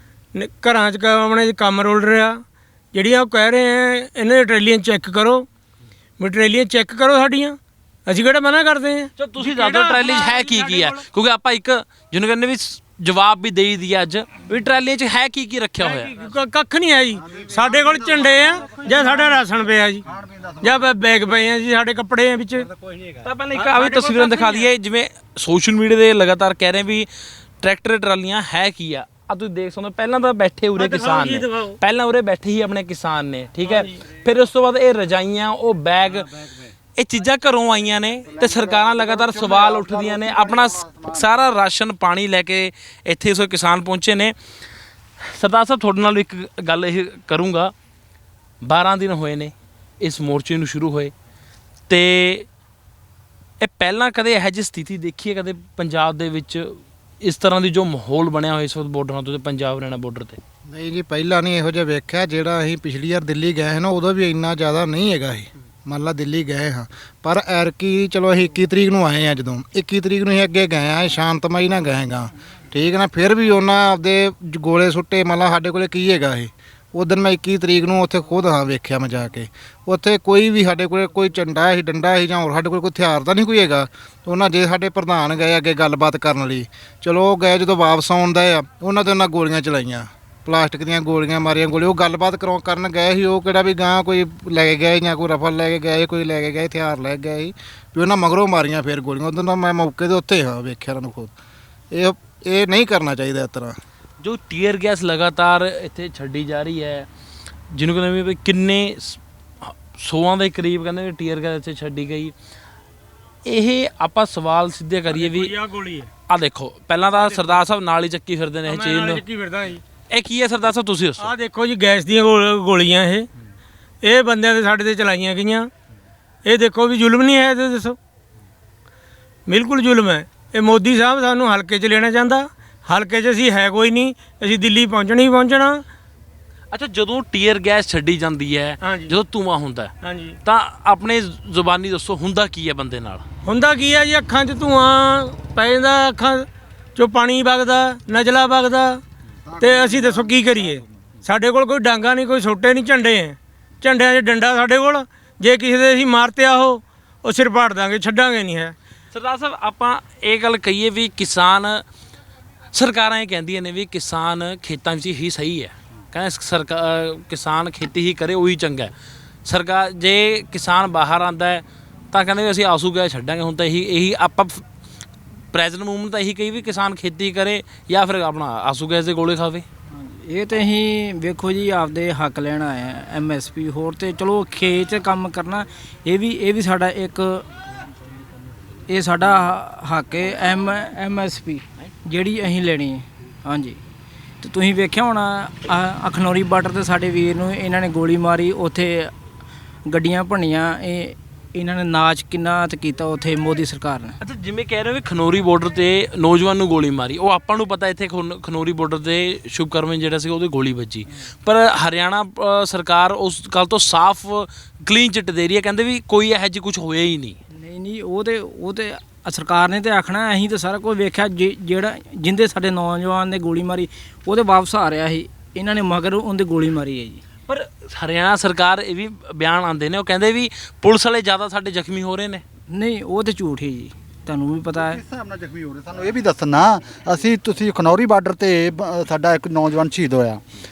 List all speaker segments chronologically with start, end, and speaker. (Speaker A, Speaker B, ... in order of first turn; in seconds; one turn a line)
Speaker A: 0.3-2.4
Speaker A: 2.9-5.5
Speaker A: 6.2-11.0
Speaker B: 9.2-16.2
Speaker A: 15.8-20.0
Speaker C: 17.2-19.4
Speaker C: 20.0-20.7
Speaker A: 20.6-22.7
Speaker B: 23.2-44.3
Speaker A: 23.5-24.7
Speaker A: 30.8-31.8
Speaker A: 33.7-34.0
Speaker C: 38.2-41.3
Speaker B: 45.2-47.7
Speaker B: 48.6-51.1
Speaker B: 51.9-52.5
Speaker B: 53.6-60.4
Speaker D: 60.7-101.3
Speaker D: 101.9-103.8
Speaker B: 104.2-107.1
Speaker B: 107.7-112.3
Speaker B: 113.4-115.5
Speaker A: 115.1-116.1
Speaker B: 116.3-119.2
Speaker A: 117.1-117.6
Speaker A: 118.7-119.8
Speaker B: 120.1-121.3
Speaker A: 121.2-123.3
Speaker A: 124.0-125.7
Speaker A: 126.4-128.0
Speaker A: 129.5-135.8
Speaker B: 136.7-139.9
Speaker A: 138.8-139.1
Speaker A: 140.0-140.4
Speaker B: 140.4-143.2
Speaker A: 143.4-149.0
Speaker A: 149.6-158.7
Speaker B: 159.1-161.8
Speaker B: 162.7-168.9
Speaker B: 169.4-174.6
Speaker B: 175.5-179.6
Speaker E: 180.0-187.4
Speaker E: 188.9-193.8
Speaker E: 194.4-199.1
Speaker E: 199.8-204.1
Speaker B: 204.2-217.4
Speaker E: 217.5-227.2
Speaker B: 227.5-232.4
Speaker E: 232.7-235.0
Speaker C: 234.8-240.4